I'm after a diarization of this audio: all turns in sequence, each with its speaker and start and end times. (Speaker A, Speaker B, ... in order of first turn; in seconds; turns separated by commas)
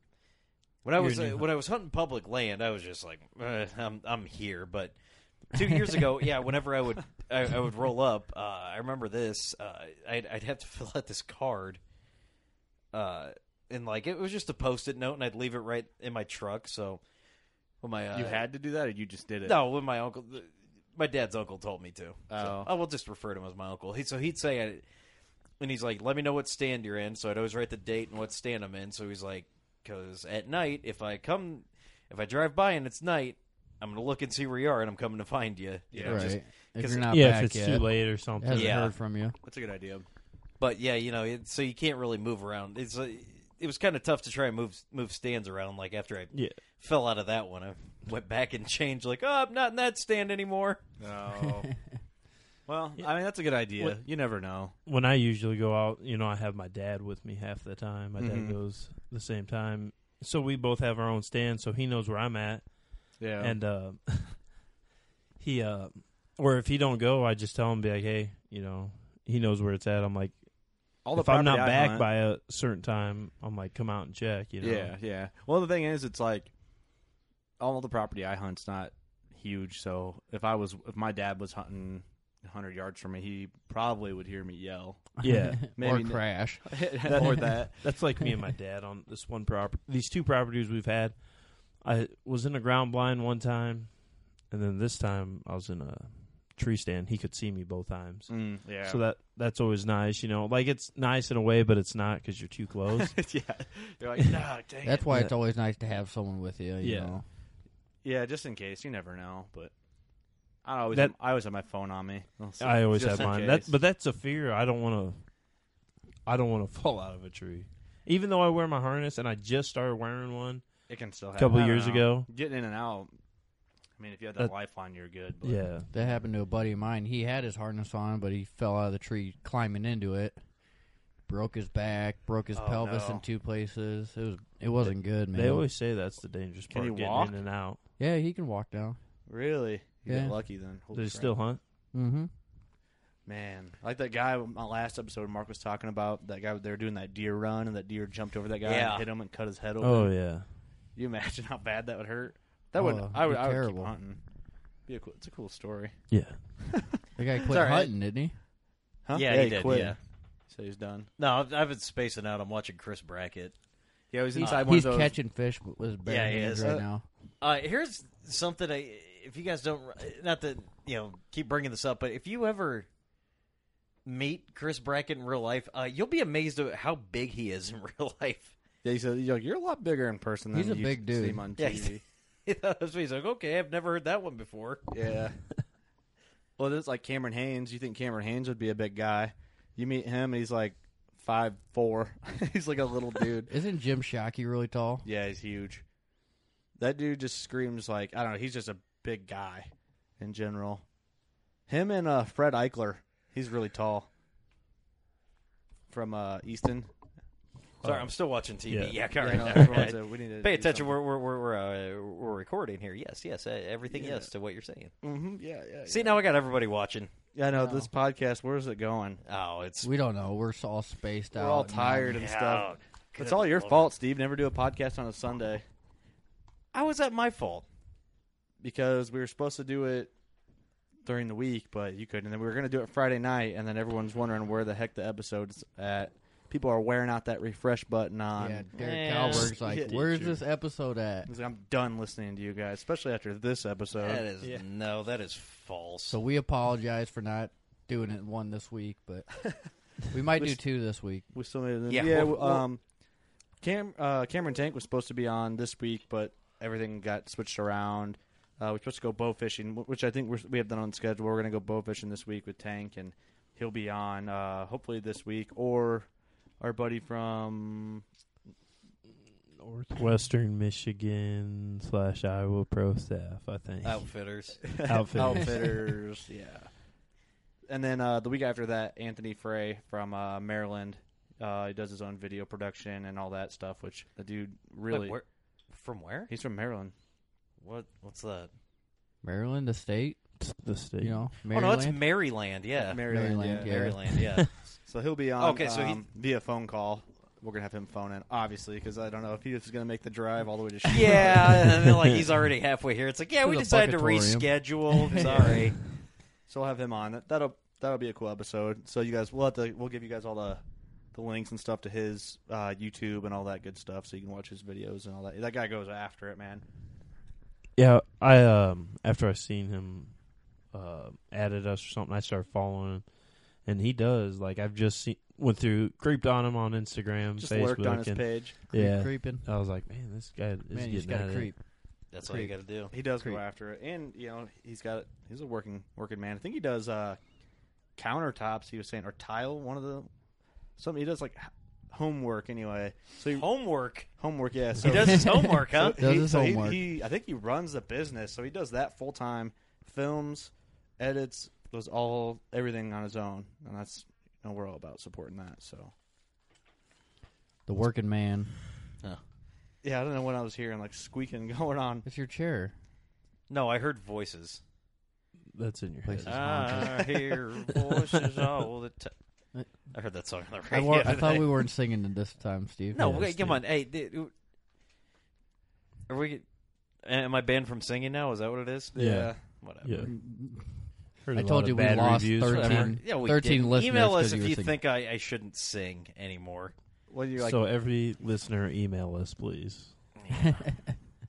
Speaker A: 0.8-4.9, Speaker B: 1.0-1.4, Speaker A: 5.5-11.8, Speaker A: 12.9-17.0, Speaker A: 17.8-18.4, Speaker C: 18.1-19.6, Speaker A: 19.4-24.8, Speaker C: 22.3-22.7, Speaker A: 25.6-36.4, Speaker C: 35.9-37.1, Speaker D: 36.0-39.4, Speaker B: 37.1-38.8, Speaker A: 38.5-38.9, Speaker C: 39.4-40.0, Speaker A: 40.6-50.8, Speaker C: 51.0-51.7, Speaker C: 52.7-54.7, Speaker B: 54.9-62.6, Speaker C: 58.2-58.6, Speaker C: 63.2-63.5, Speaker B: 63.4-64.4, Speaker B: 65.4-70.4, Speaker C: 71.0-72.1, Speaker B: 71.1-74.9, Speaker C: 74.6-76.5, Speaker C: 77.6-85.2, Speaker D: 85.2-87.6, Speaker B: 85.2-85.7, Speaker C: 85.7-87.8, Speaker B: 87.2-91.2, Speaker B: 91.8-103.2, Speaker C: 98.3-99.0, Speaker C: 102.9-105.1, Speaker D: 104.8-107.2, Speaker B: 105.1-105.3, Speaker B: 106.8-107.2, Speaker C: 108.0-109.7, Speaker C: 110.6-113.7, Speaker B: 112.6-115.2, Speaker B: 116.2-120.6, Speaker C: 120.9-123.1, Speaker B: 121.4-122.3, Speaker C: 124.0-126.2, Speaker B: 125.4-125.9, Speaker D: 125.9-130.4, Speaker D: 131.3-135.7, Speaker C: 132.5-133.2, Speaker B: 135.3-137.8, Speaker C: 136.7-137.4, Speaker D: 138.0-139.0, Speaker C: 139.3-141.3, Speaker D: 140.1-140.4, Speaker B: 140.9-141.6, Speaker D: 141.9-142.3, Speaker C: 143.2-150.2, Speaker A: 148.6-149.1, Speaker B: 149.8-150.5, Speaker C: 150.9-154.2, Speaker D: 152.7-153.9, Speaker C: 154.9-157.0, Speaker B: 156.1-156.5, Speaker D: 157.2-158.3, Speaker A: 157.5-157.9, Speaker C: 159.0-159.9, Speaker A: 159.1-160.0, Speaker C: 160.5-161.1, Speaker A: 161.2-163.5, Speaker C: 164.1-165.2, Speaker D: 164.3-167.1, Speaker A: 164.4-164.7, Speaker A: 166.0-166.7, Speaker C: 166.6-166.8, Speaker A: 167.4-172.9, Speaker A: 174.1-178.5, Speaker C: 178.8-182.0, Speaker D: 180.5-181.5, Speaker A: 181.6-184.9, Speaker C: 184.9-185.4, Speaker C: 186.6-193.5, Speaker D: 193.5-195.1, Speaker C: 195.0-195.8, Speaker C: 196.8-200.8, Speaker C: 201.7-204.1, Speaker C: 205.9-206.9, Speaker A: 207.8-214.9, Speaker B: 208.7-209.8, Speaker C: 209.2-211.0, Speaker C: 213.9-214.3, Speaker C: 215.0-216.2, Speaker A: 215.9-217.1, Speaker C: 217.3-219.2, Speaker D: 217.5-217.9, Speaker A: 219.2-219.9, Speaker D: 219.8-222.2, Speaker C: 221.3-225.6, Speaker A: 222.1-223.9, Speaker A: 226.7-227.7, Speaker C: 228.6-230.1, Speaker C: 231.0-238.7, Speaker D: 238.3-241.3, Speaker A: 238.8-239.6, Speaker C: 239.3-240.0, Speaker B: 239.3-240.4, Speaker C: 241.2-244.2, Speaker A: 243.9-246.2, Speaker D: 246.1-249.5, Speaker D: 250.1-251.3, Speaker C: 251.3-252.8, Speaker A: 251.9-252.7, Speaker C: 253.6-266.1, Speaker C: 266.6-268.0, Speaker B: 269.5-274.1, Speaker A: 273.8-274.7, Speaker C: 274.6-276.7, Speaker B: 274.9-275.7, Speaker C: 277.7-285.2, Speaker A: 284.9-286.3, Speaker C: 286.3-286.9, Speaker A: 287.6-288.5, Speaker D: 289.2-290.4, Speaker B: 290.4-291.2, Speaker D: 291.0-292.0, Speaker A: 291.5-294.5, Speaker C: 292.8-293.8, Speaker D: 293.0-294.2, Speaker C: 294.9-301.9, Speaker A: 295.4-296.0, Speaker A: 300.9-305.8, Speaker D: 303.4-305.7, Speaker C: 305.1-305.7, Speaker C: 306.5-310.6, Speaker C: 311.1-316.6, Speaker B: 317.8-320.1, Speaker B: 320.7-323.1, Speaker B: 323.6-331.5, Speaker C: 327.4-328.6, Speaker D: 328.7-329.4, Speaker D: 330.7-331.6, Speaker A: 332.1-332.9, Speaker D: 332.2-332.5, Speaker C: 332.9-337.2, Speaker D: 333.1-333.4, Speaker C: 338.0-340.1, Speaker C: 340.8-343.5, Speaker A: 343.3-344.1, Speaker C: 344.1-355.9, Speaker A: 344.8-346.0, Speaker D: 345.9-346.8, Speaker D: 357.6-358.6, Speaker C: 359.8-362.1, Speaker D: 362.0-362.7, Speaker A: 363.5-364.6, Speaker B: 365.5-366.9, Speaker D: 366.0-367.3, Speaker A: 366.2-369.1, Speaker B: 367.8-368.1, Speaker A: 369.9-371.6, Speaker D: 370.7-373.2, Speaker A: 372.9-374.3, Speaker B: 373.0-373.6, Speaker A: 376.1-376.4, Speaker A: 377.0-378.9, Speaker C: 378.9-379.4, Speaker B: 378.9-380.1, Speaker A: 379.5-380.1, Speaker D: 380.0-384.7, Speaker B: 381.2-383.0, Speaker A: 382.4-386.7, Speaker C: 387.1-387.6, Speaker B: 387.4-389.9, Speaker A: 390.1-390.6, Speaker D: 390.4-390.9